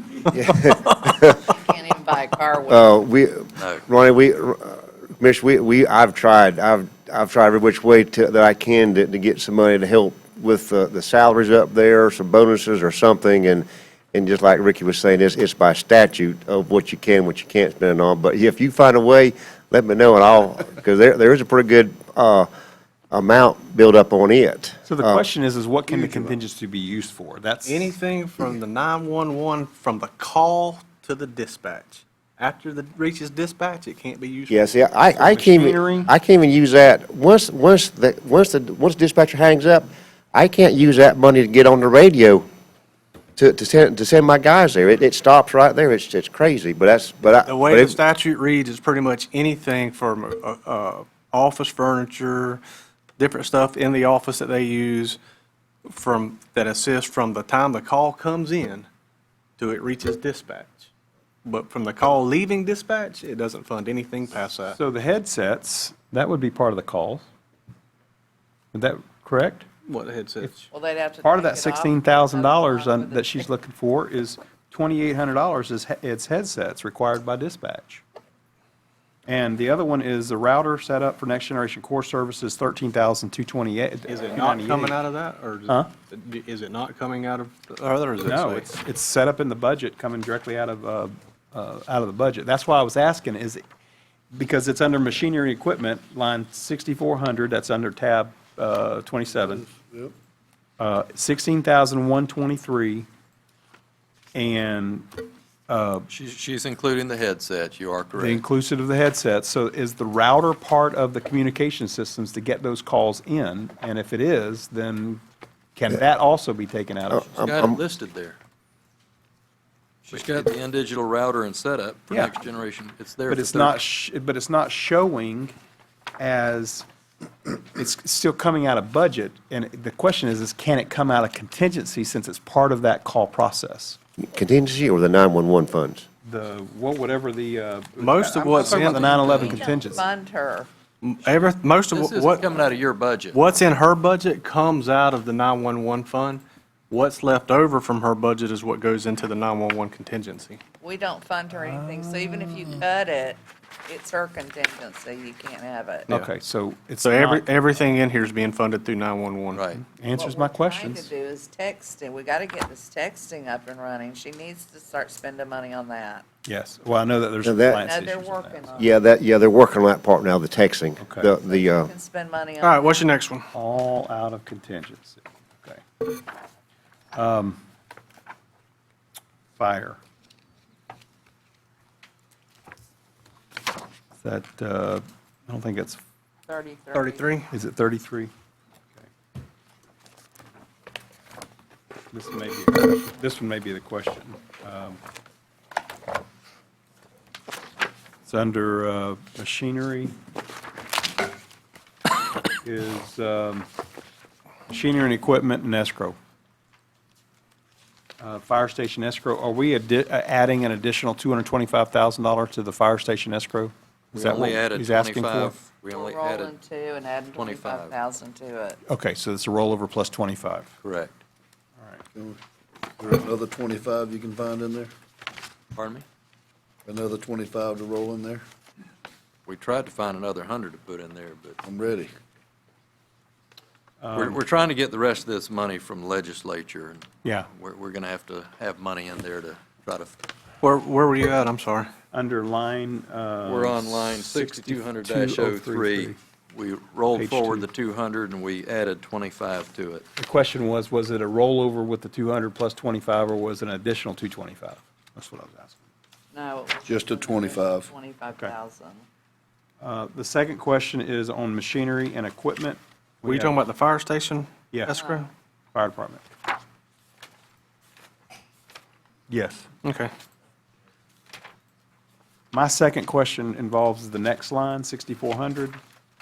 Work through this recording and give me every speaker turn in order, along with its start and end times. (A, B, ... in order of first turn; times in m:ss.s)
0:00.3-0:01.4 A
0:01.3-0:03.0 B
0:02.7-0:22.5 A
0:03.6-0:03.8 C
0:23.1-0:25.2 A
0:24.9-0:28.0 D
0:25.9-0:26.4 E
0:27.6-0:34.8 E
0:34.5-0:42.4 A
0:35.2-0:36.1 D
0:43.4-0:48.0 A
0:47.4-0:52.6 E
0:53.2-0:55.2 E
0:55.9-0:58.9 E
0:59.6-1:00.9 E
1:01.4-1:04.8 E
1:04.7-1:07.2 D
1:08.7-1:09.7 D
1:09.9-1:10.6 E
1:10.7-1:13.4 B
1:11.2-1:18.0 D
1:19.3-1:25.0 D
1:24.1-1:28.7 E
1:28.2-1:33.6 D
1:34.3-1:39.7 D
1:39.4-1:40.1 F
1:40.8-1:43.1 D
1:44.3-1:45.1 D
1:45.7-1:46.1 D
1:46.1-1:48.4 C
1:48.1-1:55.2 D
1:55.8-1:57.3 D
1:57.1-1:57.8 A
1:57.3-1:58.4 C
2:00.0-2:03.8 C
2:03.3-2:05.5 D
2:06.2-2:06.8 D
2:07.5-2:14.0 D
2:14.2-2:16.0 A
2:16.2-2:20.0 D
2:18.0-2:19.6 E
2:18.6-2:20.7 B
2:21.0-2:22.6 E
2:21.9-2:23.4 C
2:23.3-2:30.6 E
2:30.8-2:36.1 B
2:31.5-2:32.8 D
2:36.1-2:37.4 D
2:37.0-2:39.6 E
2:39.5-2:39.8 C
2:39.8-2:41.1 D
2:40.1-2:46.2 B
2:46.4-2:48.8 D
2:47.4-2:47.8 A
2:47.8-2:48.9 B
2:48.8-2:51.9 A
2:51.0-2:51.3 D
2:51.4-2:53.0 B
2:52.6-2:53.5 E
2:53.5-2:55.8 D
2:57.1-2:57.6 D
2:59.6-3:00.0 D
3:04.2-3:06.0 D
3:06.5-3:07.4 B
3:06.9-3:07.5 E
3:07.5-3:08.3 D
3:12.1-3:15.0 D
3:18.2-3:20.1 D
3:22.6-3:23.7 D
3:24.7-3:26.2 D
3:28.2-3:35.5 D
3:34.1-3:36.5 C
3:35.9-3:38.8 B
3:37.4-3:37.9 C
3:38.9-3:40.7 D
3:40.8-3:41.1 C
3:43.0-3:44.9 F
3:45.7-3:46.0 C
3:46.8-3:48.4 F
3:49.4-3:51.6 C
3:51.6-3:52.1 F
3:54.0-3:54.4 D
3:54.2-4:00.1 C
3:57.2-3:57.5 D
4:00.6-4:01.9 E
4:02.1-4:06.2 D
4:03.4-4:10.0 C
4:07.1-4:07.7 D
4:10.2-4:15.8 D
4:16.3-4:19.0 B
4:16.8-4:17.9 F
4:19.8-4:23.6 D
4:23.2-4:25.3 E
4:24.9-4:25.3 B
4:25.7-4:26.2 D
4:29.3-4:29.6 D
4:29.8-4:30.1 E
4:32.5-4:35.8 D